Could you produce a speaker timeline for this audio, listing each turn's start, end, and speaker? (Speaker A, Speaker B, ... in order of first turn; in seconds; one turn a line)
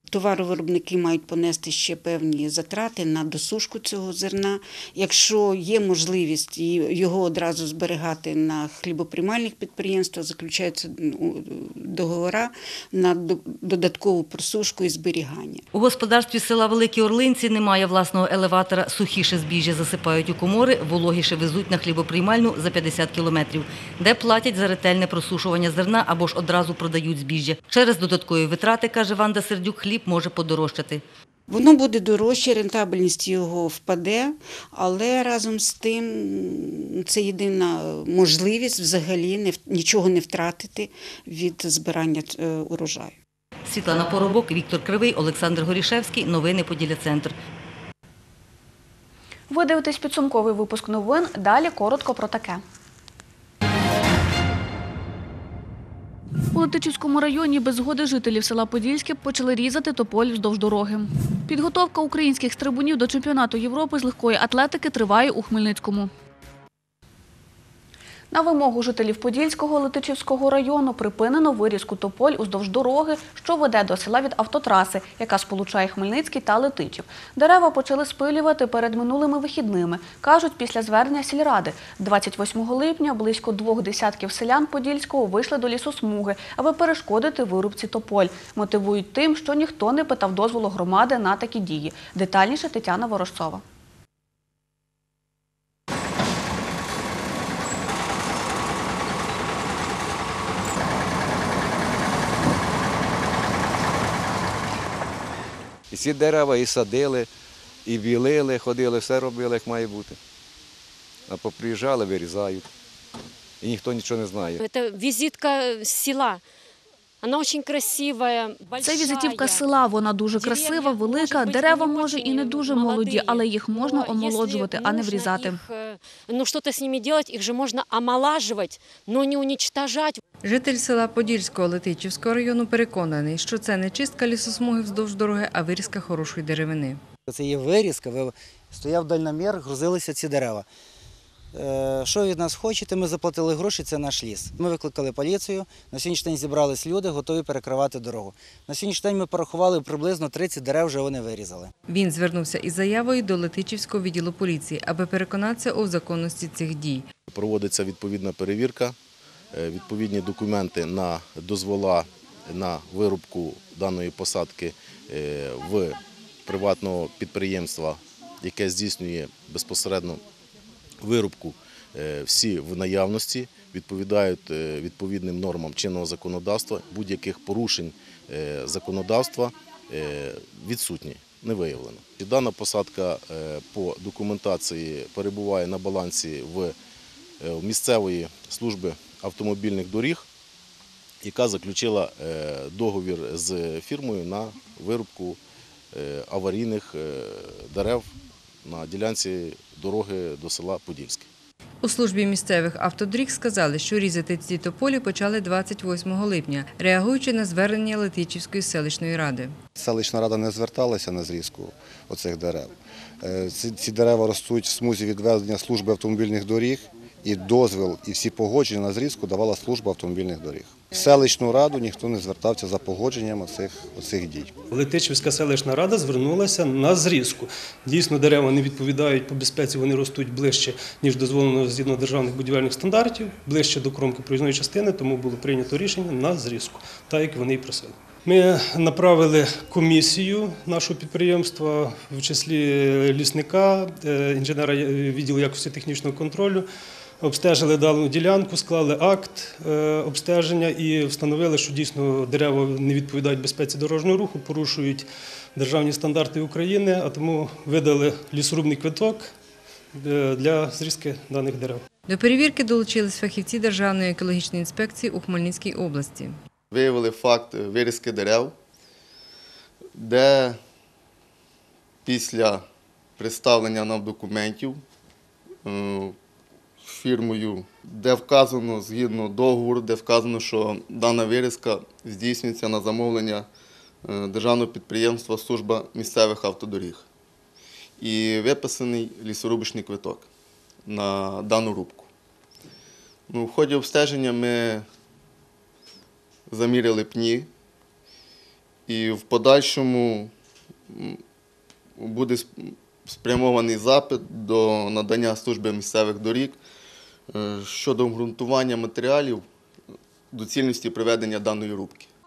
Speaker A: 0.1-15.6
Speaker B: 15.7-31.0
Speaker A: 31.5-43.2
Speaker B: 43.7-47.3
Speaker C: 49.5-52.6
Speaker C: 56.5-66.1
Speaker C: 68.3-93.6
Speaker D: 105.9-107.3
Speaker D: 107.8-110.2
Speaker D: 111.3-112.7
Speaker D: 113.6-114.6
Speaker E: 114.7-116.4
Speaker E: 117.2-119.7
Speaker C: 118.8-125.6
Speaker E: 120.4-130.2
Speaker F: 130.4-137.0
Speaker G: 137.3-140.7
Speaker G: 141.5-151.7
Speaker F: 151.9-157.1
Speaker H: 157.3-159.0
Speaker H: 159.5-170.2
Speaker H: 171.0-186.8
Speaker H: 187.4-190.2
Speaker H: 191.2-195.4
Speaker H: 195.9-198.1
Speaker H: 198.7-201.3
Speaker F: 201.8-209.6
Speaker I: 209.8-212.7
Speaker I: 213.2-224.5
Speaker J: 224.7-246.6
Speaker J: 247.2-255.1
Speaker J: 255.6-259.3
Speaker J: 260.0-261.8
Speaker F: 262.1-266.4
Speaker K: 266.7-268.5
Speaker K: 270.0-270.6
Speaker K: 272.1-272.6
Speaker K: 273.2-274.8
Speaker K: 275.6-276.1
Speaker K: 276.9-283.5
Speaker K: 284.1-287.0
Speaker K: 288.0-290.3
Speaker K: 290.9-292.1
Speaker K: 293.3-294.9
Speaker K: 296.5-297.5
Speaker K: 298.9-300.3
Speaker K: 300.9-301.2
Speaker K: 302.0-306.6
Speaker K: 307.3-309.4
Speaker K: 310.3-312.1